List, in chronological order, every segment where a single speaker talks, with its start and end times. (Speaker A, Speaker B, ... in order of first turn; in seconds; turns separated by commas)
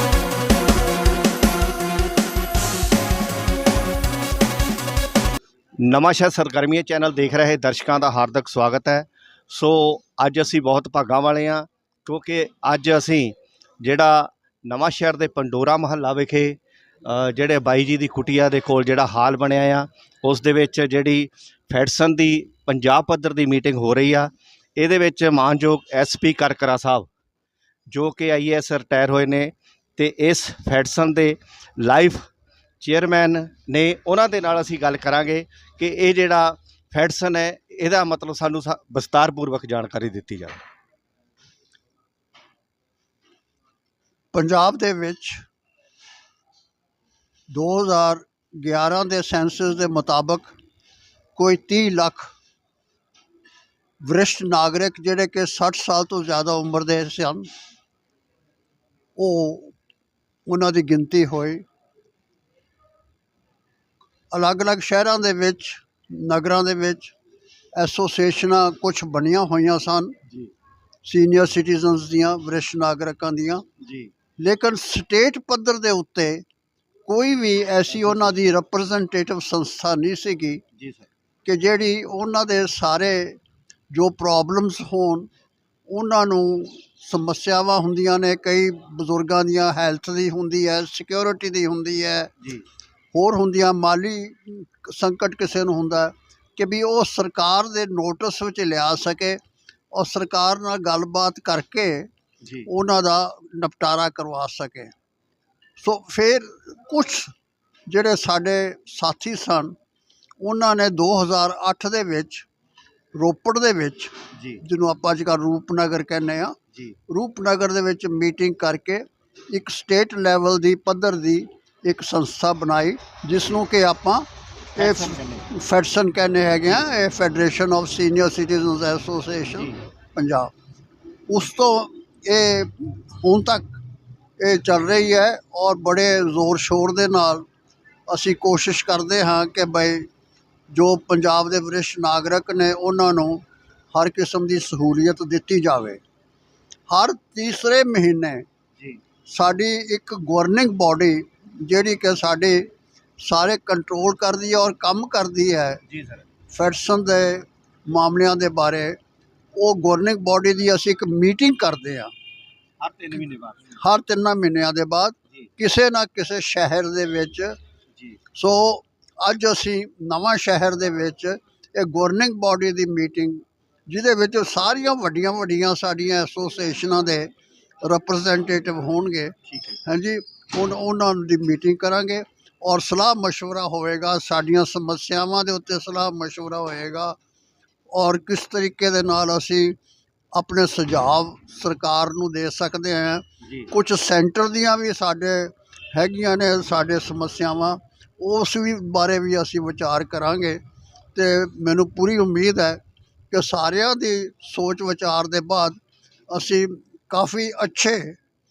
Speaker A: 5.8-27.1, Speaker A: 27.9-32.3, Speaker A: 32.8-40.6, Speaker B: 44.3-45.4, Speaker B: 47.5-50.5, Speaker B: 51.4-52.3, Speaker B: 54.0-57.5, Speaker B: 59.2-59.7, Speaker B: 60.5-61.6, Speaker B: 64.3-67.1, Speaker B: 67.7-70.2, Speaker B: 71.0-73.6, Speaker A: 73.8-74.1, Speaker B: 74.4-76.4, Speaker B: 77.1-80.6, Speaker A: 77.9-78.3, Speaker A: 80.8-81.1, Speaker B: 81.5-83.4, Speaker B: 83.9-85.3, Speaker B: 85.9-92.3, Speaker B: 93.1-99.4, Speaker B: 99.9-102.1, Speaker A: 102.4-102.7, Speaker B: 102.7-104.9, Speaker B: 105.8-107.3, Speaker B: 107.9-109.8, Speaker B: 110.4-112.5, Speaker B: 113.1-116.6, Speaker A: 114.3-114.6, Speaker B: 117.1-124.3, Speaker A: 124.8-125.5, Speaker B: 124.8-130.5, Speaker A: 129.5-129.8, Speaker B: 131.3-133.7, Speaker B: 134.4-137.5, Speaker B: 138.1-140.1, Speaker B: 140.7-146.0, Speaker B: 146.9-148.4, Speaker B: 149.3-152.7, Speaker B: 153.2-155.8, Speaker A: 155.9-156.2, Speaker B: 156.5-159.0, Speaker B: 159.6-162.1, Speaker A: 162.8-163.8, Speaker B: 163.8-167.5, Speaker B: 168.3-177.3, Speaker B: 177.8-179.3, Speaker A: 179.5-179.8, Speaker B: 179.9-187.2, Speaker B: 187.9-189.8, Speaker B: 190.3-200.6, Speaker A: 193.4-193.7, Speaker B: 201.2-205.8, Speaker B: 206.3-208.2